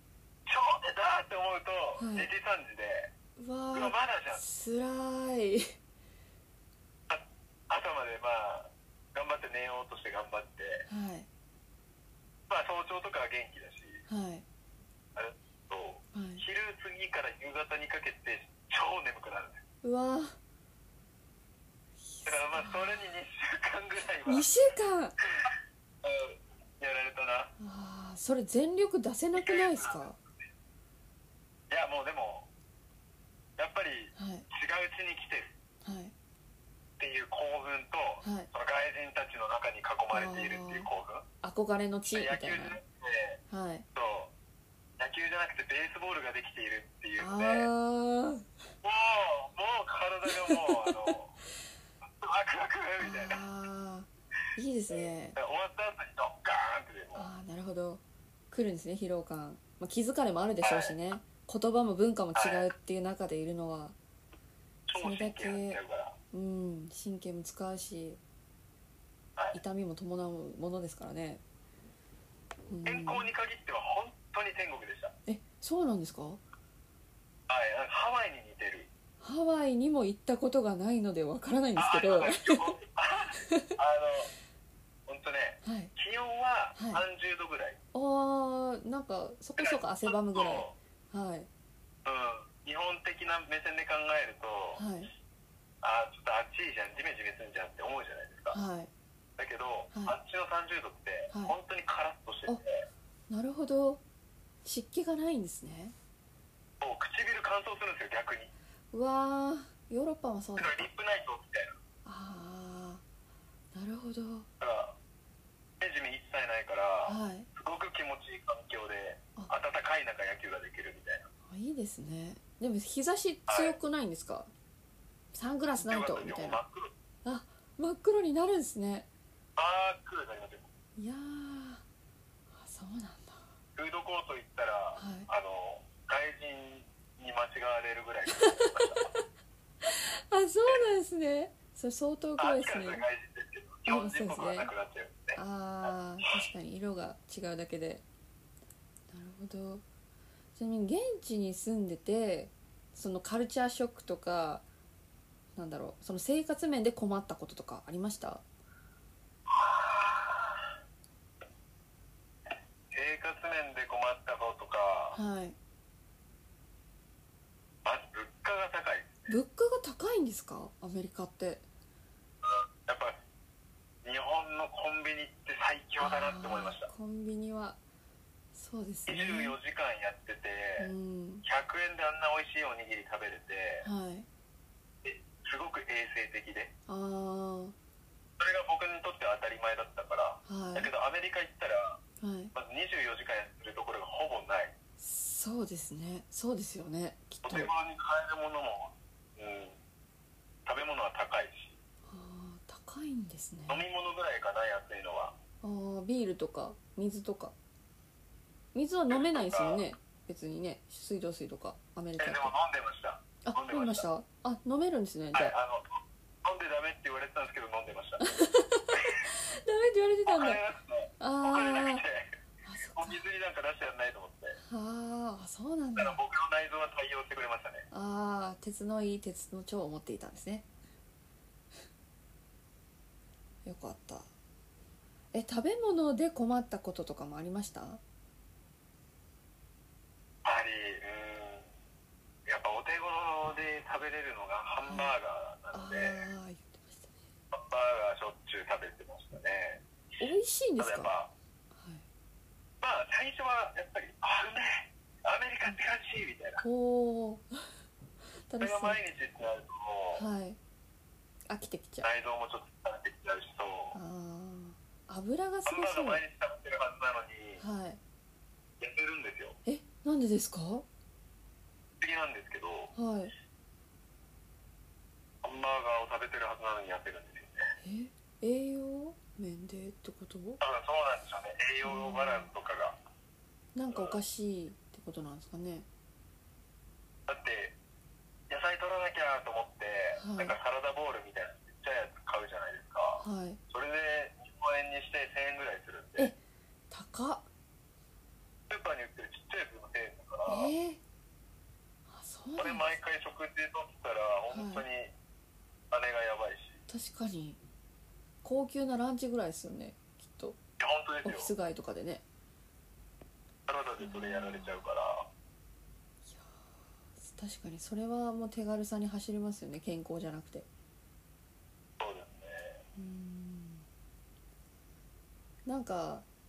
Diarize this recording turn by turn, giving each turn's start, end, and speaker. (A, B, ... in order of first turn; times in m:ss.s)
0:00.4-0:03.1 A
0:02.0-0:02.3 B
0:03.4-0:05.7 B
0:03.7-0:04.4 A
0:07.1-0:10.8 A
0:10.9-0:11.3 B
0:12.5-0:14.0 A
0:14.1-0:14.4 B
0:15.1-0:19.6 A
0:16.1-0:16.4 B
0:19.8-0:20.3 B
0:22.0-0:23.0 B
0:22.2-0:24.5 A
0:24.2-0:25.1 B
0:26.0-0:27.5 A
0:27.6-0:30.2 B
0:29.3-0:30.0 A
0:31.7-0:32.5 A
0:33.6-0:35.5 A
0:34.2-0:34.5 B
0:35.8-0:36.1 B
0:37.0-0:41.2 A
0:38.2-0:38.5 B
0:40.1-0:40.9 B
0:41.4-0:42.8 B
0:42.1-0:43.4 A
0:43.5-0:43.8 B
0:43.9-0:44.3 A
0:45.0-0:47.7 A
0:47.2-0:48.5 B
0:48.8-0:51.3 A
0:50.3-0:51.1 B
0:52.0-0:53.4 A
0:53.0-0:55.4 B
0:54.9-0:57.3 A
0:57.1-1:04.0 B
1:00.6-1:00.9 A
1:02.3-1:02.7 A
1:04.9-1:06.1 A
1:04.9-1:05.8 B
1:06.3-1:08.2 B
1:09.5-1:11.4 B
1:12.7-1:13.3 B
1:12.8-1:15.1 A
1:15.3-1:16.4 B
1:17.5-1:18.9 A
1:19.2-1:22.7 B
1:21.8-1:24.3 A
1:23.4-1:23.8 B
1:25.1-1:27.8 A
1:25.6-1:25.9 B
1:26.8-1:27.0 B
1:27.9-1:31.5 B
1:29.6-1:30.7 A
1:32.0-1:34.8 A
1:34.8-1:35.1 B
1:35.8-1:38.6 A
1:38.5-1:38.9 B
1:39.4-1:42.8 A
1:41.3-1:41.6 B
1:43.3-1:44.0 B
1:44.6-1:45.9 B
1:46.8-1:48.5 A
1:48.9-1:50.8 B
1:50.6-1:51.7 A
1:52.0-1:53.0 B
1:53.7-1:54.5 B
1:54.6-1:54.9 A
1:55.8-2:01.3 A
1:57.0-1:57.5 B
2:01.5-2:04.5 B
2:03.5-2:03.8 A
2:05.3-2:06.6 B
2:05.8-2:06.9 A
2:07.2-2:09.1 B
2:09.6-2:10.7 A
2:11.0-2:11.8 B
2:12.6-2:13.4 B
2:13.8-2:19.0 A
2:15.0-2:15.3 B
2:18.3-2:19.2 B
2:19.8-2:23.0 B
2:22.4-2:25.4 A
2:23.8-2:24.7 B
2:25.4-2:28.0 B
2:29.1-2:29.8 B
2:30.6-2:34.6 B
2:35.6-2:38.4 B
2:39.5-2:40.7 A
2:42.9-2:45.2 A
2:45.1-2:45.6 B
2:47.8-2:49.3 A
2:49.3-2:51.6 B
2:52.4-2:53.1 A
2:54.0-2:56.9 A
2:56.0-2:57.8 B
2:58.5-2:59.6 B
2:59.1-3:00.9 A
3:00.8-3:01.4 B
3:01.4-3:03.8 A
3:03.8-3:04.3 B
3:05.0-3:06.7 A
3:06.9-3:07.7 B
3:08.4-3:12.0 A
3:10.4-3:10.9 B
3:12.2-3:12.5 B
3:12.5-3:14.7 A
3:15.0-3:17.7 B
3:17.4-3:19.8 A
3:20.6-3:21.8 A
3:22.1-3:23.8 B
3:23.7-3:25.3 A
3:25.6-3:27.5 B
3:28.7-3:32.5 B
3:29.1-3:29.8 A
3:32.2-3:34.0 A
3:33.4-3:35.5 B
3:35.3-3:38.3 A
3:38.2-3:40.6 B
3:38.9-3:39.2 A
3:40.2-3:42.3 A
3:41.2-3:42.0 B
3:42.6-3:43.2 B
3:42.9-3:44.6 A
3:44.6-3:46.2 B
3:46.0-3:47.8 A
3:47.9-3:50.6 B
3:53.6-3:54.3 B
3:55.3-3:58.0 B
4:00.4-4:01.7 A
4:02.4-4:06.2 A
4:04.8-4:05.1 B
4:05.7-4:07.1 B
4:07.5-4:09.8 A
4:10.2-4:11.1 B
4:10.8-4:11.3 A
4:11.7-4:12.0 B
4:12.8-4:16.6 A
4:16.6-4:17.5 B
4:18.5-4:19.0 B
4:18.6-4:20.2 A
4:20.1-4:20.6 B
4:21.5-4:22.1 B
4:22.0-4:24.0 A
4:23.9-4:26.2 B
4:25.6-4:27.6 A
4:27.6-4:28.0 B
4:28.8-4:29.6 A
4:29.6-4:30.8 B
4:32.0-4:32.9 A
4:32.9-4:33.3 B
4:35.4-4:37.7 A
4:37.8-4:40.6 B
4:40.6-4:43.0 A
4:41.8-4:42.5 B
4:43.7-4:45.8 B
4:43.9-4:44.2 A
4:47.3-4:47.7 A
4:48.5-4:56.3 A
4:50.2-4:50.5 B
4:53.2-4:53.6 B
4:56.9-4:57.4 B
4:58.7-5:00.7 A
5:00.4-5:01.0 B
5:02.1-5:02.9 B
5:02.6-5:05.1 A
5:04.5-5:04.8 B
5:05.9-5:06.8 A
5:06.9-5:07.6 B
5:08.4-5:10.6 B
5:10.8-5:11.5 A
5:11.2-5:12.2 B
5:13.7-5:15.3 A
5:14.0-5:14.8 B
5:16.3-5:16.6 B
5:17.2-5:20.6 B
5:22.0-5:22.8 A
5:23.0-5:23.8 B
5:25.6-5:26.2 B